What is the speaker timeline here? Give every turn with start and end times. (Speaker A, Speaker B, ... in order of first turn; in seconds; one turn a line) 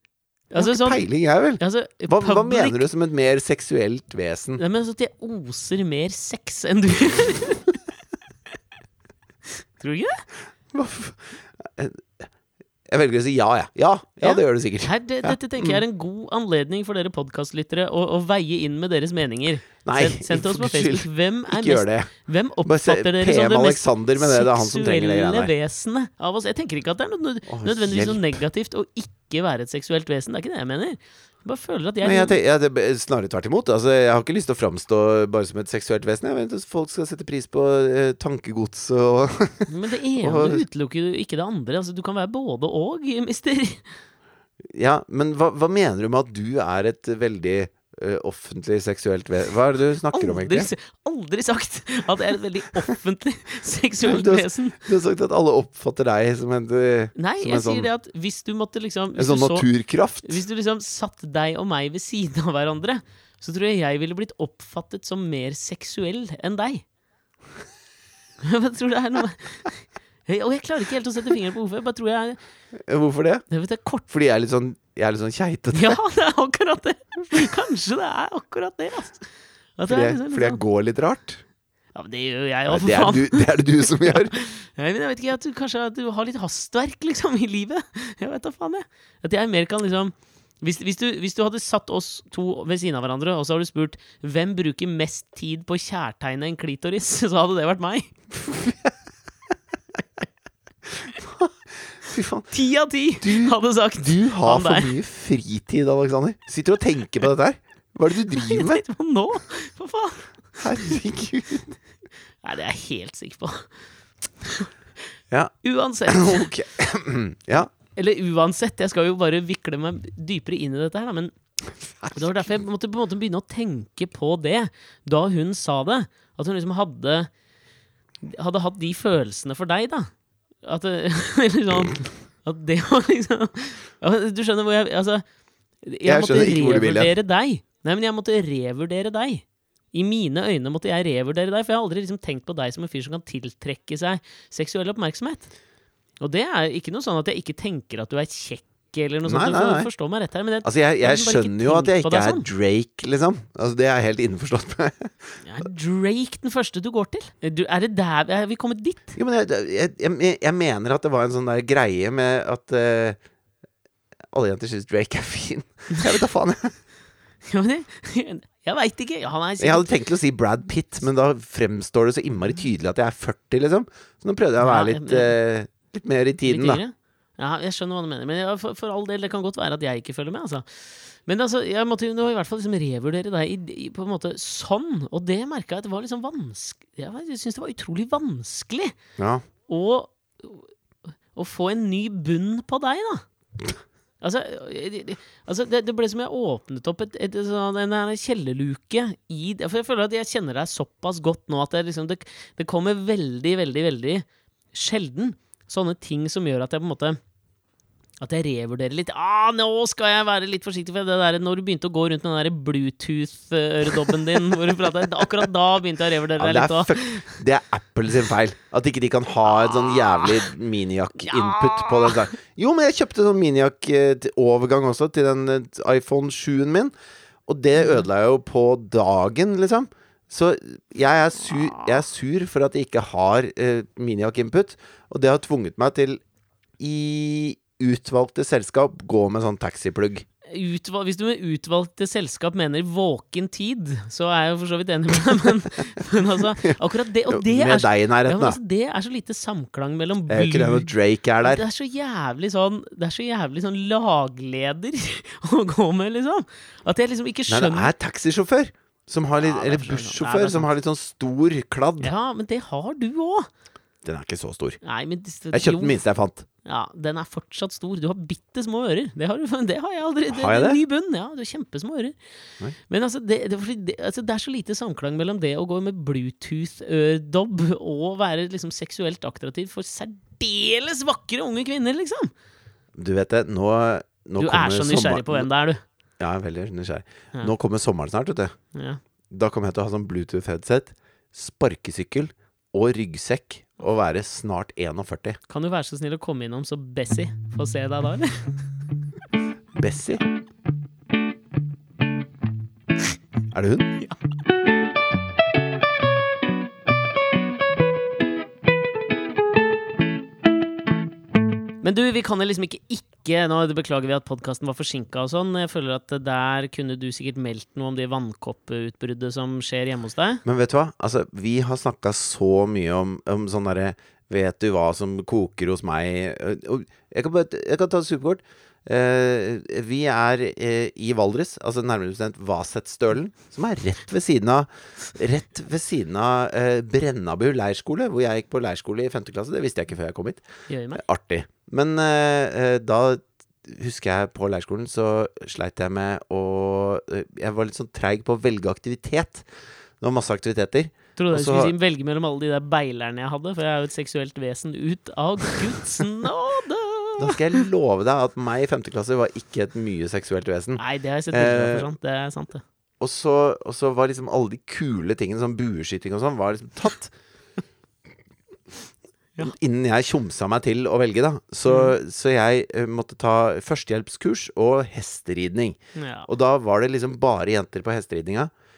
Speaker A: 0.5-1.0
Speaker B: 0.6-4.6
Speaker A: 1.6-2.8
Speaker A: 4.6-7.8
Speaker A: 9.8-10.2
Speaker B: 10.7-12.3
Speaker B: 12.9-15.8
Speaker A: 14.2-32.4
Speaker B: 19.8-22.1
Speaker B: 22.6-25.5
Speaker B: 27.5-28.2
Speaker B: 32.0-40.6
Speaker A: 39.7-44.0
Speaker B: 44.7-50.7
Speaker A: 50.1-54.8
Speaker B: 54.0-57.9
Speaker A: 57.1-59.7
Speaker B: 59.1-60.4
Speaker A: 60.2-66.8
Speaker A: 68.4-72.4
Speaker B: 72.8-73.4
Speaker A: 73.5-74.0
Speaker B: 74.1-76.0
Speaker A: 75.7-79.2
Speaker A: 79.8-80.6
Speaker B: 79.9-81.4
Speaker A: 81.9-98.1
Speaker B: 82.7-84.3
Speaker B: 98.3-98.9
Speaker B: 101.1-102.5
Speaker A: 102.5-104.9
Speaker B: 103.2-108.8
Speaker A: 108.3-111.0
Speaker B: 110.6-111.8
Speaker A: 112.4-113.7
Speaker A: 114.4-114.7
Speaker A: 115.6-116.5
Speaker B: 116.1-117.7
Speaker A: 118.0-121.3
Speaker B: 122.0-122.5
Speaker A: 122.1-127.3
Speaker A: 128.2-130.1
Speaker A: 130.6-135.2
Speaker A: 135.8-145.5
Speaker B: 136.0-137.1
Speaker A: 146.2-152.4
Speaker B: 149.2-149.9
Speaker B: 150.6-155.1
Speaker A: 155.4-159.1
Speaker B: 159.2-163.2
Speaker B: 164.3-166.8
Speaker A: 167.5-169.9
Speaker B: 169.6-176.8
Speaker A: 174.6-175.3
Speaker A: 176.4-188.9
Speaker B: 189.2-189.4
Speaker A: 189.7-190.7
Speaker A: 191.3-193.2
Speaker A: 194.2-207.2
Speaker A: 208.2-217.3
Speaker B: 216.4-226.9
Speaker A: 219.5-220.5
Speaker A: 221.2-222.2
Speaker B: 227.5-236.2
Speaker A: 227.8-228.1
Speaker A: 231.5-232.0
Speaker B: 236.8-240.2
Speaker A: 240.4-250.9
Speaker B: 247.3-248.6
Speaker B: 250.3-251.6
Speaker A: 251.4-257.9
Speaker B: 257.5-262.1
Speaker A: 259.4-260.7
Speaker A: 262.0-263.5
Speaker B: 264.0-264.8
Speaker A: 264.8-266.0
Speaker B: 265.5-266.4
Speaker A: 266.6-272.1
Speaker B: 270.3-270.8
Speaker A: 272.9-282.3
Speaker B: 282.9-285.5
Speaker A: 284.4-285.8
Speaker B: 286.2-288.5
Speaker A: 288.7-289.0
Speaker B: 289.3-295.4
Speaker A: 295.5-298.6
Speaker B: 299.8-300.2
Speaker B: 303.5-303.9
Speaker A: 311.8-320.4
Speaker B: 320.4-340.4
Speaker A: 340.7-341.0
Speaker B: 340.9-349.4
Speaker B: 350.0-351.7
Speaker A: 351.1-357.6
Speaker B: 357.2-361.9
Speaker A: 360.8-362.6
Speaker B: 363.0-367.1
Speaker B: 369.4-378.5
Speaker A: 371.7-371.9
Speaker A: 375.9-376.3